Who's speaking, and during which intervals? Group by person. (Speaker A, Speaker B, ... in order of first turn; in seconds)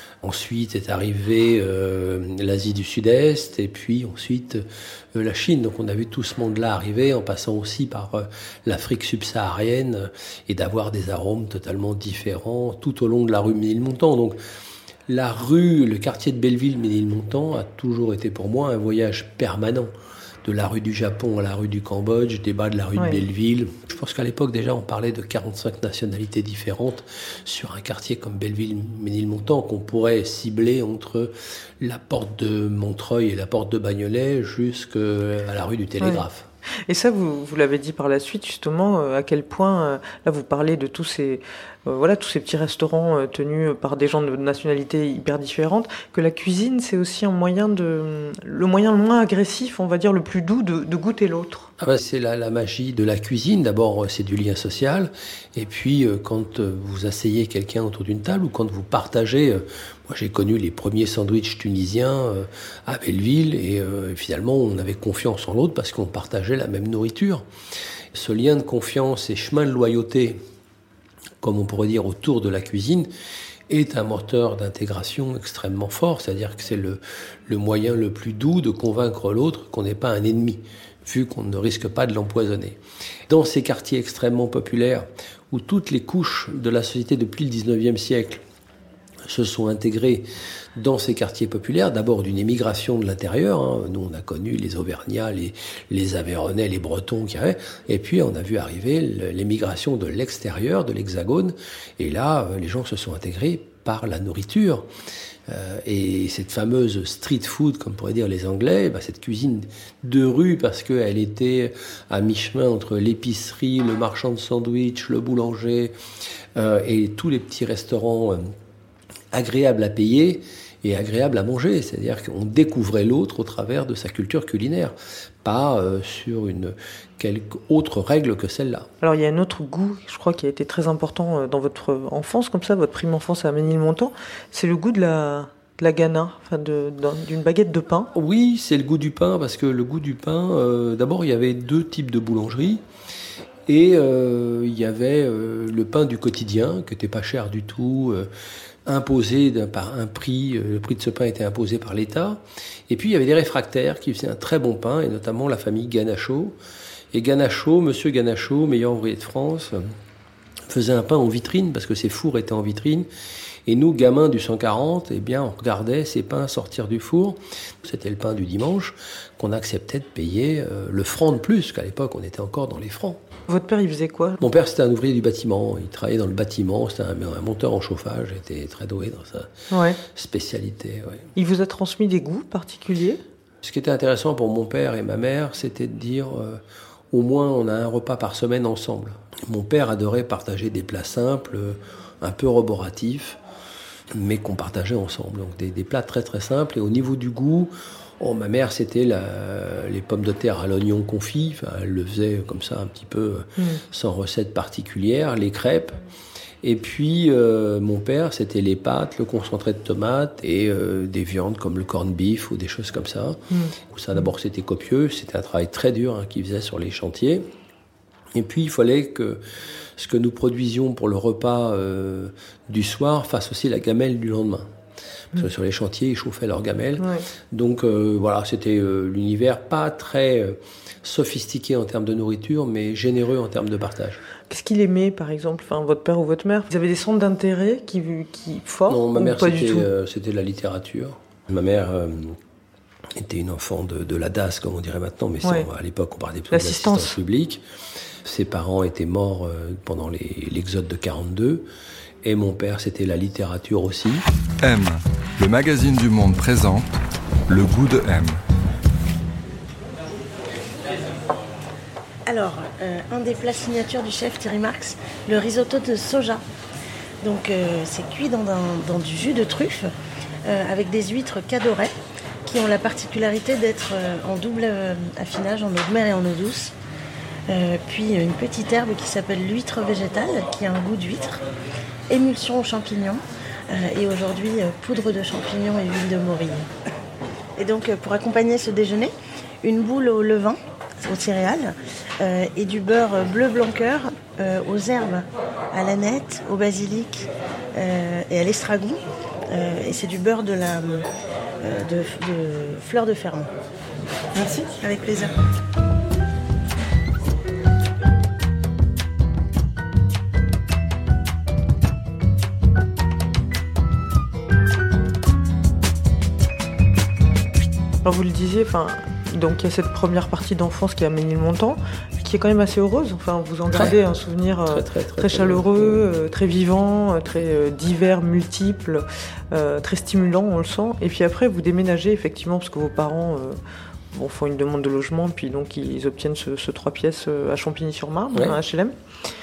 Speaker A: 0.2-14.4, 15.1-19.9, 20.4-36.5, 51.8-67.4, 68.1-70.4, 71.4-73.1, 73.7-88.4, 89.2-104.9, 105.5-115.9, 116.5-118.5, 119.3-128.9, 138.1-142.8, 143.7-148.3, 148.8-156.6, 157.1-159.8, 160.7-163.1, 163.7-173.2, 174.4-181.3, 183.6-193.4, 194.1-206.0, 206.6-217.4, 218.3-219.4, 219.9-224.7, 225.3-234.2, 238.9-242.4, 243.1-247.6, 248.2-251.7, 252.2-254.2, 324.7-326.0
Speaker B: 36.9-51.7, 129.0-138.1, 173.5-174.4, 179.7-180.0, 181.3-183.2, 227.0-227.2, 234.5-239.9, 245.4-245.7, 246.5-247.2, 304.3-304.7, 318.0-333.6, 334.1-338.9
Speaker C: 254.6-256.9, 257.5-258.4
Speaker D: 262.2-266.4, 267.2-269.9, 270.4-271.9, 272.4-276.7, 277.5-281.4, 282.1-286.7, 287.6-301.1, 301.6-303.5, 304.8-305.3